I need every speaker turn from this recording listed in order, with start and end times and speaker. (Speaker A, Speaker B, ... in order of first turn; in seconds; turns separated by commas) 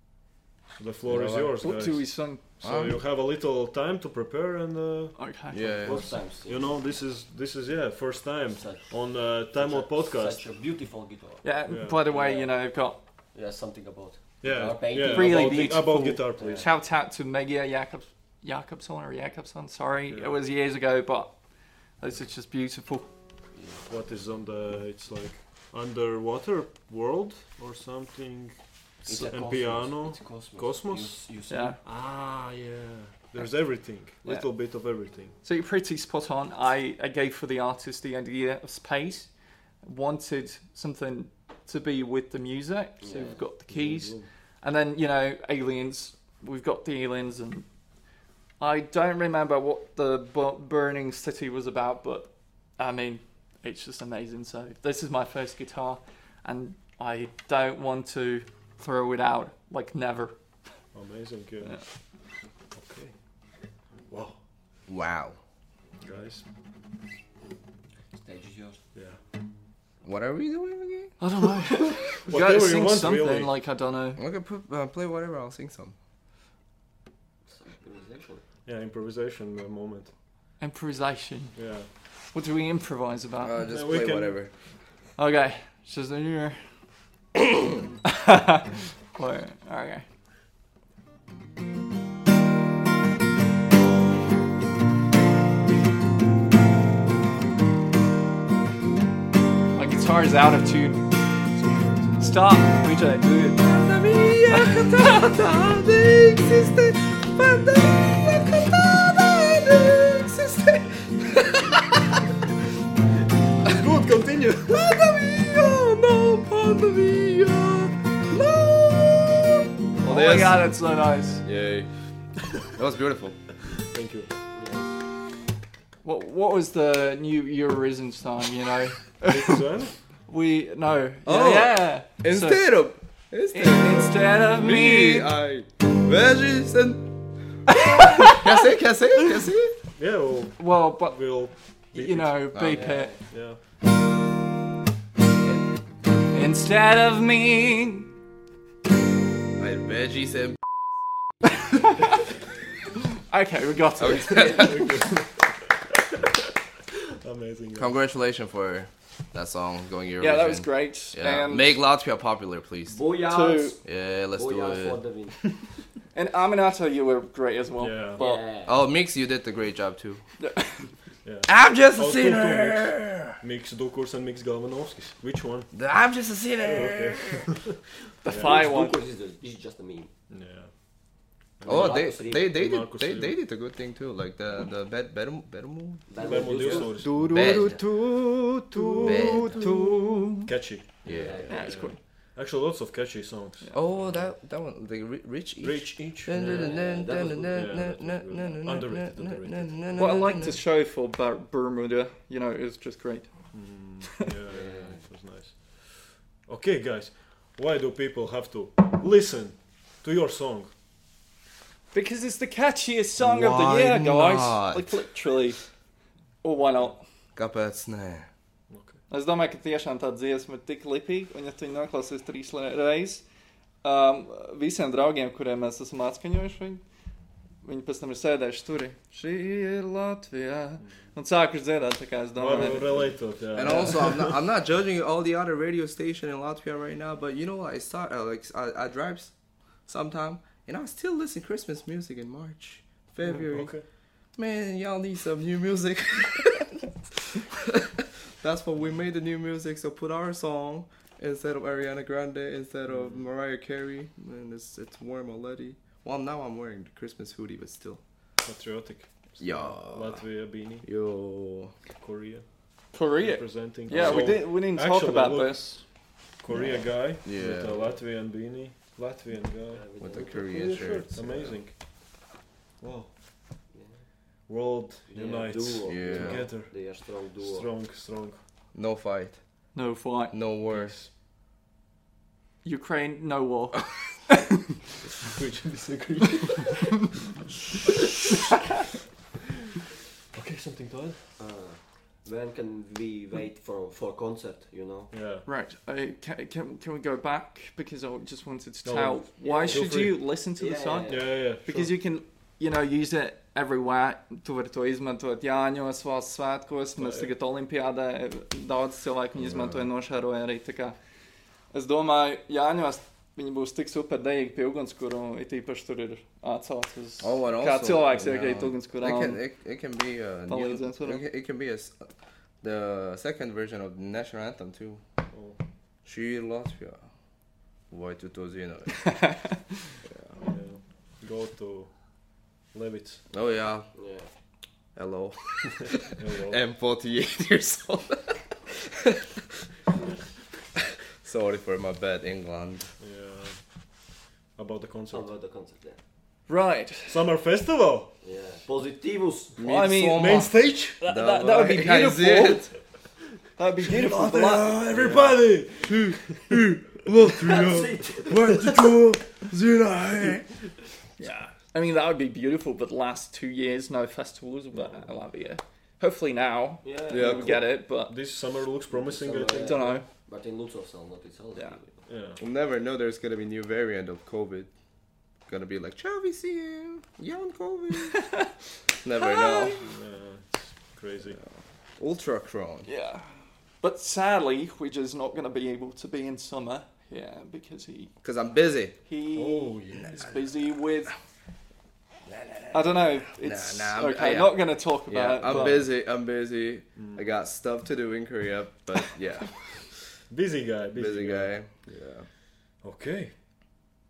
Speaker A: 0.7-10.4, Speaker B: 1.1-1.5, Speaker C: 1.6-2.4, Speaker B: 2.6-2.9, Speaker C: 5.2-5.6, Speaker B: 5.5-6.1, Speaker D: 5.8-6.8, Speaker D: 8.5-11.4, Speaker C: 11.4-13.0, Speaker A: 11.7-12.0, Speaker D: 12.1-12.5, Speaker D: 13.3-16.7, Speaker A: 14.4-16.6, Speaker C: 15.0-21.3, Speaker A: 20.1-20.4, Speaker C: 22.0-23.1, Speaker A: 23.9-28.6, Speaker D: 29.0-31.8, Speaker A: 29.1-31.2, Speaker C: 31.5-31.8, Speaker A: 31.8-35.3, Speaker C: 35.4-39.3, Speaker C: 39.8-47.6, Speaker D: 43.0-43.4, Speaker A: 43.7-44.2, Speaker C: 48.6-60.3, Speaker A: 60.9-61.8, Speaker A: 62.7-63.1, Speaker A: 64.1-64.4, Speaker B: 64.9-65.4, Speaker A: 66.0-66.4, Speaker D: 68.1-68.8, Speaker B: 70.0-71.1, Speaker C: 71.2-74.2, Speaker A: 72.2-73.5, Speaker B: 74.2-76.0, Speaker D: 77.5-78.4, Speaker A: 78.7-80.1, Speaker C: 80.6-81.6, Speaker A: 81.5-81.9, Speaker C: 82.3-83.6, Speaker B: 83.4-84.5, Speaker A: 83.7-84.4, Speaker C: 85.2-86.6, Speaker C: 88.0-90.0, Speaker C: 99.7-101.1, Speaker A: 101.5-102.3, Speaker C: 102.2-103.6, Speaker B: 103.3-112.2, Speaker C: 104.5-104.8, Speaker A: 113.7-114.8, Speaker B: 114.7-120.7, Speaker C: 120.0-121.4, Speaker B: 121.4-121.9, Speaker B: 122.7-123.4, Speaker A: 123.9-124.3, Speaker D: 124.5-124.9, Speaker C: 126.0-129.6, Speaker A: 129.3-129.9, Speaker C: 130.3-132.6, Speaker B: 131.2-137.1, Speaker C: 133.5-135.3, Speaker B: 137.7-139.8, Speaker C: 137.7-138.6, Speaker A: 140.0-142.4, Speaker C: 140.6-141.2, Speaker C: 141.9-143.1, Speaker B: 142.5-142.9, Speaker D: 142.7-143.2, Speaker A: 143.3-143.6, Speaker C: 146.3-148.1, Speaker B: 149.6-150.7, Speaker C: 151.7-152.1, Speaker C: 153.2-155.1, Speaker B: 154.0-154.9, Speaker A: 154.4-155.4, Speaker A: 155.9-156.2, Speaker A: 157.2-158.0, Speaker B: 157.8-163.0, Speaker C: 160.2-161.8, Speaker D: 162.9-163.8, Speaker C: 163.3-163.8, Speaker B: 163.8-165.0, Speaker D: 164.3-165.5, Speaker C: 166.1-168.4, Speaker A: 167.8-168.2, Speaker D: 168.2-168.8, Speaker B: 168.6-170.2, Speaker C: 170.4-170.9, Speaker A: 171.2-175.7, Speaker B: 171.5-173.4, Speaker B: 175.7-177.5, Speaker A: 176.6-178.6, Speaker C: 178.2-179.0, Speaker D: 178.3-180.1, Speaker A: 180.3-180.7, Speaker A: 181.6-183.3, Speaker D: 181.6-182.5, Speaker B: 181.7-187.8, Speaker D: 186.1-187.0, Speaker A: 186.2-187.3, Speaker C: 186.8-190.5, Speaker A: 188.7-189.7, Speaker B: 189.0-189.7, Speaker A: 190.4-194.3, Speaker B: 191.0-191.7, Speaker D: 191.0-191.9, Speaker C: 191.5-192.0, Speaker B: 193.7-200.6, Speaker A: 195.6-199.8, Speaker D: 196.3-197.8, Speaker C: 199.9-203.3, Speaker A: 203.5-210.7, Speaker D: 204.5-205.1, Speaker C: 211.9-215.6, Speaker B: 213.2-215.1, Speaker C: 216.4-217.0, Speaker B: 217.3-218.3, Speaker A: 218.7-219.0, Speaker C: 219.1-223.2, Speaker C: 223.8-226.8, Speaker C: 227.6-233.2, Speaker A: 232.4-234.4, Speaker B: 233.5-239.3, Speaker B: 239.9-243.7, Speaker A: 243.2-243.8, Speaker B: 244.3-258.0, Speaker A: 252.8-253.2, Speaker A: 258.4-260.9, Speaker B: 259.4-260.2, Speaker B: 260.8-261.7, Speaker A: 261.9-262.4, Speaker C: 262.9-265.8, Speaker A: 263.1-265.8, Speaker B: 263.9-264.4, Speaker A: 266.4-271.7, Speaker D: 266.5-266.9, Speaker B: 267.2-267.8, Speaker D: 269.7-271.0, Speaker B: 270.0-271.6, Speaker A: 272.8-273.1, Speaker D: 273.7-274.0, Speaker A: 274.5-278.4, Speaker D: 275.1-277.7, Speaker B: 275.8-276.5, Speaker B: 278.7-279.4, Speaker C: 279.7-280.4, Speaker B: 280.3-280.9, Speaker A: 280.7-281.1, Speaker C: 282.6-284.4, Speaker A: 285.2-287.0, Speaker A: 290.3-291.3, Speaker D: 291.4-295.1, Speaker A: 295.1-295.4, Speaker C: 295.4-311.0, Speaker A: 298.8-300.2, Speaker D: 299.4-300.0, Speaker D: 300.6-301.4, Speaker A: 301.1-301.9, Speaker A: 307.0-307.3, Speaker B: 309.4-309.9, Speaker C: 311.7-319.4, Speaker B: 317.2-322.1, Speaker C: 320.5-321.2, Speaker B: 322.6-325.0, Speaker A: 325.3-325.6, Speaker B: 326.0-327.0, Speaker B: 327.9-329.3, Speaker C: 329.1-329.5, Speaker B: 330.1-330.3, Speaker A: 330.4-333.2, Speaker B: 333.3-333.9, Speaker D: 333.9-334.3, Speaker B: 334.9-339.3, Speaker A: 336.1-336.6, Speaker B: 341.2-342.9, Speaker A: 343.0-343.6, Speaker A: 344.6-345.3, Speaker D: 345.1-346.0, Speaker C: 346.5-347.2, Speaker A: 347.1-348.1, Speaker D: 348.2-349.6, Speaker B: 349.6-352.7, Speaker C: 349.6-352.7, Speaker A: 350.1-351.0, Speaker C: 353.6-355.0, Speaker A: 353.8-357.1, Speaker B: 354.3-355.2, Speaker B: 355.9-360.5, Speaker D: 357.3-358.8, Speaker C: 361.2-368.1, Speaker D: 366.8-367.6, Speaker B: 367.1-367.6, Speaker A: 368.1-370.0, Speaker D: 368.9-372.0, Speaker C: 369.6-370.1, Speaker A: 372.1-372.4, Speaker B: 372.4-374.7, Speaker B: 375.5-378.2, Speaker C: 378.1-378.5, Speaker B: 379.0-379.8, Speaker C: 379.2-379.8, Speaker A: 379.8-381.4, Speaker B: 381.3-382.9, Speaker C: 382.9-383.2, Speaker C: 383.8-388.1, Speaker B: 388.2-389.0, Speaker C: 389.1-391.1, Speaker A: 389.3-390.4, Speaker B: 392.2-399.8, Speaker C: 392.7-395.8, Speaker A: 395.4-395.8, Speaker A: 396.9-397.2, Speaker A: 400.3-401.5, Speaker B: 400.9-402.3, Speaker A: 402.8-403.3